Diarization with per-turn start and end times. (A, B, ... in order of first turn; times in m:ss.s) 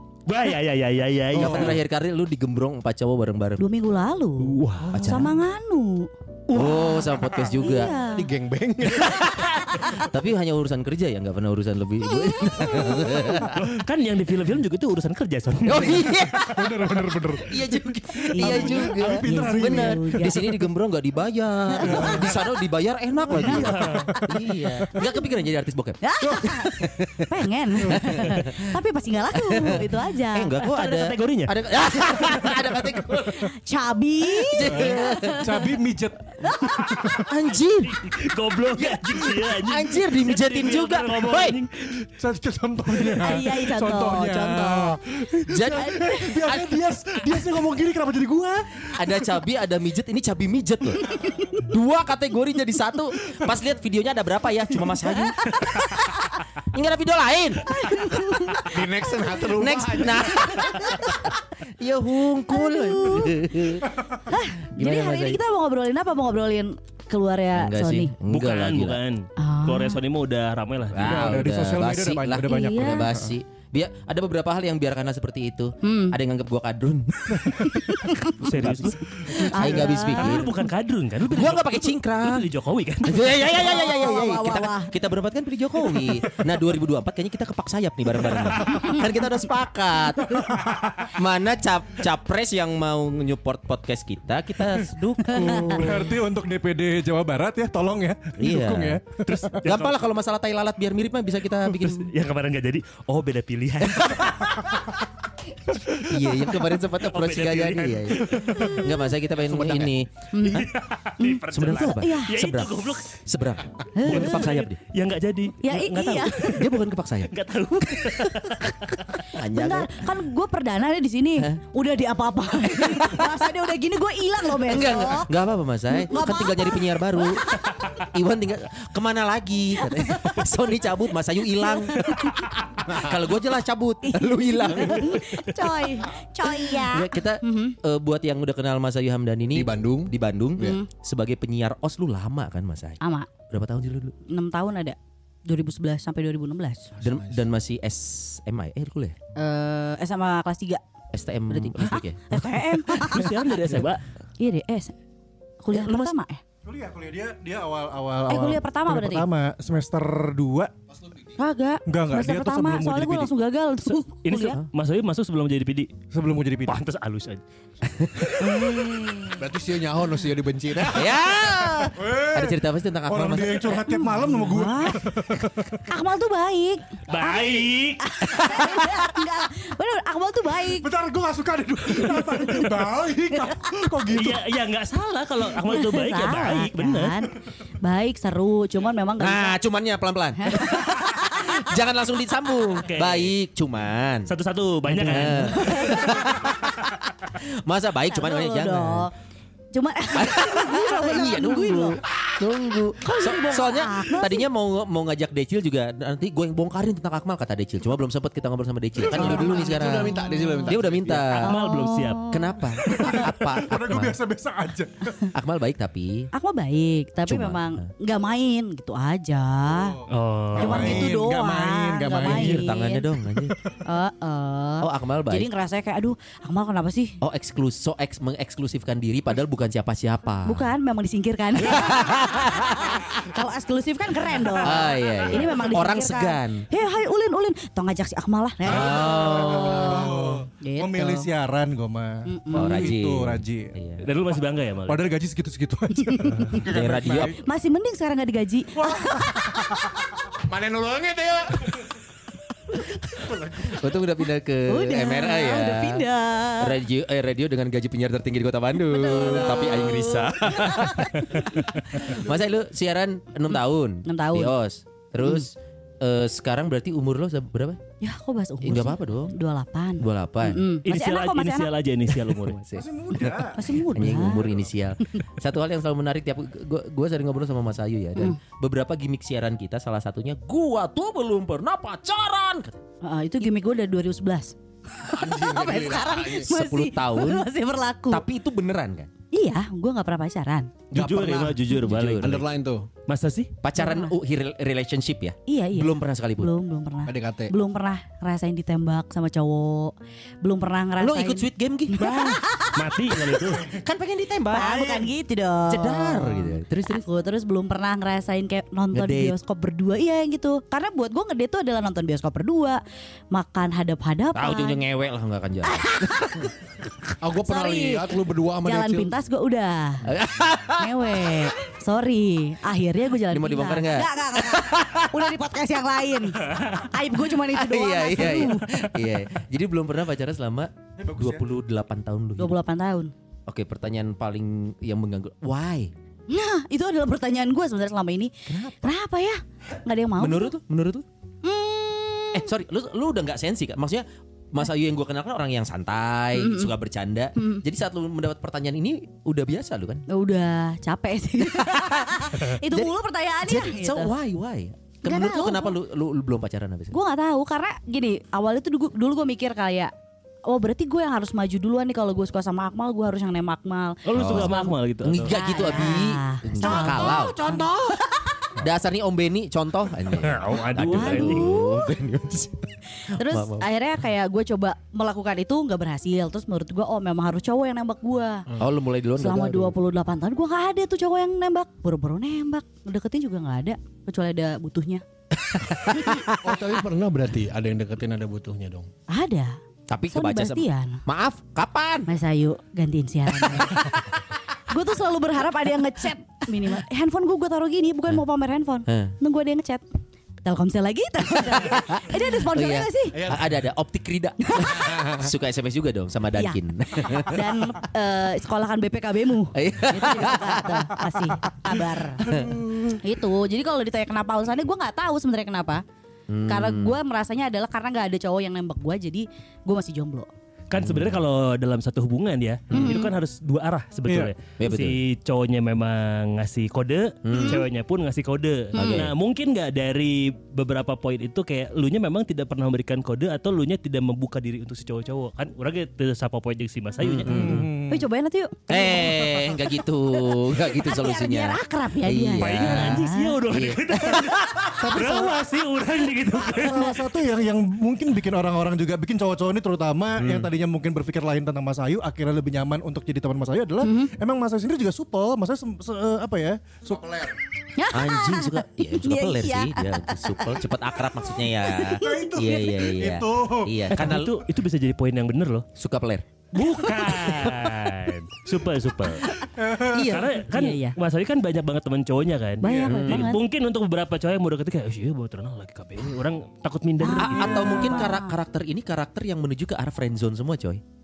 0:00.3-0:01.8 A
0:01.3-0:03.7 B
0:03.6-0:08.3 C
0:04.4-0:05.2 A
0:04.9-0:05.4 B
0:06.5-0:08.0 B
0:06.6-0:06.9 D
0:07.6-0:09.9 D
0:09.8-0:13.7 B
0:12.1-0:13.2 C
0:13.5-0:16.1 A
0:15.6-0:28.8 B
0:16.3-0:20.3 E
0:18.4-0:20.6 C
0:21.7-0:22.4 C
0:21.8-0:22.3 E
0:23.3-0:25.2 C
0:23.4-0:24.2 E
0:23.4-0:24.1 A
0:26.0-0:30.6 C
0:29.3-0:33.5 B
0:30.6-0:31.6 A
0:33.1-0:35.7 C
0:34.3-0:35.7 B
0:34.6-0:37.3 E
0:36.4-0:37.1 C
0:37.1-0:41.6 B
0:37.8-0:42.0 A
0:42.0-0:49.1 E
0:43.1-0:44.6 C
0:44.4-0:46.8 B
0:45.7-0:46.4 C
0:49.0-0:58.5 B
0:51.2-0:51.5 C
0:55.3-0:56.3 C
0:57.6-1:01.3 C
0:58.6-1:00.9 D
0:59.5-1:03.9 B
1:02.4-1:03.7 C
1:04.3-1:08.1 C
1:04.7-1:05.4 B
1:07.6-1:09.0 B
1:08.2-1:11.4 A
1:09.4-1:10.0 C
1:10.9-1:17.7 B
1:11.0-1:13.4 E
1:12.4-1:13.1 C
1:15.8-1:16.2 C
1:17.6-1:18.4 C
1:18.4-1:23.3 A
1:18.4-1:20.5 B
1:19.4-1:20.5 C
1:21.3-1:22.5 B
1:23.0-1:36.1 B
1:23.4-1:24.9 C
1:28.8-1:29.1 C
1:30.3-1:31.2 E
1:35.2-1:39.8 E
1:35.3-1:36.0 C
1:38.4-1:39.0 B
1:39.2-1:39.9 A
1:39.6-1:42.1 B
1:41.7-1:44.7 A
1:43.8-1:44.5 B
1:46.0-1:50.7 B
1:47.0-1:48.8 A
1:48.6-1:49.0 C
1:50.3-1:50.7 C
1:50.4-1:53.2 A
1:51.2-1:52.4 C
1:51.5-1:54.8 B
1:54.0-1:54.5 C
1:54.0-1:56.6 A
1:55.6-1:56.8 C
1:56.4-1:57.3 B
1:57.3-1:59.2 A
1:59.3-2:00.1 B
1:59.3-2:05.3 C
2:02.8-2:03.4 B
2:04.6-2:15.7 B
2:05.9-2:07.8 C
2:09.8-2:10.5 C
2:11.5-2:12.5 C
2:14.0-2:17.8 C
2:16.4-2:24.2 B
2:19.5-2:20.8 D
2:20.6-2:20.9 C
2:23.0-2:23.3 C
2:24.3-2:26.9 C
2:26.9-2:27.4 D
2:27.0-2:29.2 B
2:29.4-2:30.8 C
2:31.1-2:32.5 B
2:31.5-2:33.4 C
2:32.9-2:34.0 A
2:34.4-2:34.9 C
2:35.6-2:36.4 C
2:35.7-2:36.1 B
2:36.6-2:40.7 E
2:38.3-2:39.3 C
2:41.4-2:44.6 C
2:41.9-2:43.3 E
2:44.2-2:46.0 A
2:46.1-2:46.8 E
2:46.7-2:47.4 A
2:47.8-2:48.6 B
2:48.4-2:49.4 C
2:49.4-2:51.2 D
2:50.8-2:53.8 B
2:52.0-2:55.9 E
2:53.7-2:55.0 C
2:55.9-3:00.9 C
2:57.1-2:58.1 A
3:00.8-3:04.5 E
3:02.1-3:02.7 C
3:04.1-3:07.2 A
3:05.6-3:09.6 C
3:09.2-3:14.3 B
3:10.4-3:11.8 C
3:12.8-3:13.3 A
3:14.3-3:15.9 A
3:14.9-3:19.1 B
3:15.3-3:16.6 C
3:18.1-3:19.1 C
3:19.7-3:22.0 C
3:20.1-3:31.6 B
3:23.0-3:24.5 C
3:29.0-3:31.3 D
3:29.1-3:30.8 C
3:31.3-3:32.2 A
3:31.4-3:33.2 C
3:32.3-3:34.2 B
3:32.8-3:35.3 E
3:35.3-3:36.3 B
3:36.3-3:40.0 C
3:37.3-3:37.9 B
3:39.7-3:42.6 E
3:40.1-3:41.1 A
3:40.6-3:43.1 C
3:42.2-3:43.6 B
3:43.8-3:47.2 C
3:44.8-3:45.5 B
3:47.2-3:50.7 B
3:50.4-4:01.3 C
3:51.6-3:53.1 B
3:54.6-3:56.7 B
3:58.7-4:00.2 B
3:58.7-4:03.7 E
4:02.3-4:02.9 C
4:02.5-4:04.0 B
4:04.0-4:05.1 A
4:04.8-4:07.4 E
4:06.0-4:06.6 C
4:06.6-4:07.4 B
4:07.4-4:09.9 C
4:08.8-4:10.0 E
4:10.4-4:11.7 D
4:13.5-4:16.1 B
4:14.7-4:16.8 C
4:16.6-4:27.8 B
4:18.8-4:22.2 C
4:24.0-4:24.5 C
4:28.0-4:31.7 C
4:28.6-4:29.4 B
4:30.0-4:30.7 B
4:30.8-4:32.6 A
4:32.3-4:32.8 B
4:32.7-4:33.7 E
4:33.6-4:34.5 C
4:33.9-4:42.8 B
4:43.0-4:48.2 C
4:45.0-4:46.5 D
4:46.4-4:47.5 B
4:48.1-4:49.1 B
4:49.3-4:50.7 C
4:50.9-4:52.4 A
4:50.9-4:52.9 D
4:51.7-4:52.4 B
4:53.1-4:53.5 A
4:53.6-4:56.5 B
4:53.8-4:54.1 C
4:55.5-5:03.5 C
4:57.0-4:57.5 D
5:01.0-5:02.1 B
5:02.0-5:03.7 A
5:03.6-5:05.1 B
5:04.5-5:14.8 C
5:05.7-5:07.0 B
5:08.9-5:09.4 B
5:14.3-5:16.5 B
5:15.6-5:16.5 C
5:17.2-5:19.1 D
5:17.4-5:20.1 C
5:20.0-5:21.5 B
5:20.8-5:28.8 C
5:23.3-5:25.3 B
5:27.5-5:32.6 B
5:31.0-5:31.4 E
5:32.4-5:33.1 C
5:33.5-5:35.9 B
5:36.3-5:40.6 C
5:38.5-5:38.9 B
5:40.2-5:41.1 B
5:41.4-5:42.5 C
5:42.3-5:50.0 B
5:46.4-5:46.7 C
5:47.4-5:47.6 C
5:50.1-5:54.1 C
5:51.6-5:52.9 B
5:53.4-5:57.0 B
5:55.0-5:55.8 C
5:56.9-5:59.9 C
6:00.5-6:08.5 C
6:04.0-6:05.4 A
6:04.2-6:07.7 B
6:08.6-6:13.7 B
6:10.2-6:11.5 A
6:10.8-6:12.0 C
6:13.0-6:18.5 C
6:18.6-6:19.8 B
6:19.2-6:25.0 C
6:25.4-6:26.4 B
6:26.3-6:28.9 D
6:29.1-6:29.6 C
6:29.9-6:32.1 B
6:30.1-6:31.0 C
6:32.1-6:39.8 C
6:33.5-6:34.0 B
6:38.9-6:39.2 B
6:40.4-6:43.3 C
6:41.5-6:47.6 B
6:43.2-6:43.5 D
6:44.4-6:44.9 C
6:44.8-6:45.3 D
6:46.4-6:52.3 C
6:49.5-6:50.9 B
6:52.2-6:53.0 B
6:53.0-6:55.8 C
6:56.3-6:57.0 B
6:56.5-7:00.3 C
7:00.7-7:17.7 A
7:00.7-7:01.2 B
7:02.7-7:03.0 B
7:02.7-7:03.1 C
7:04.1-7:04.3 E
7:04.6-7:05.0 B
7:07.2-7:07.6 B
7:07.3-7:07.6 C
7:08.7-7:09.1 B
7:08.8-7:09.1 C
7:17.0-7:17.7 B
7:17.3-7:18.0 E
7:17.9-7:23.4 C
7:18.7-7:24.3 B
7:22.4-7:26.9 A
7:24.8-7:25.4 E
7:26.4-7:37.0 E
7:30.2-7:30.5 B
7:33.8-7:34.1 C
7:36.8-7:37.4 D
7:37.8-7:40.6 C
7:37.9-7:44.4 B
7:41.6-7:42.4 C
7:42.0-7:43.9 E
7:43.9-7:45.7 A
7:45.8-7:46.3 B
7:46.5-7:49.3 A
7:49.6-7:50.1 E
7:49.8-7:50.4 B
7:49.9-7:58.0 A
7:50.5-7:51.0 C
7:52.6-7:53.4 C
7:52.7-7:53.0 E
7:52.8-7:53.3 B
7:57.0-7:58.4 C
7:57.1-8:00.8 B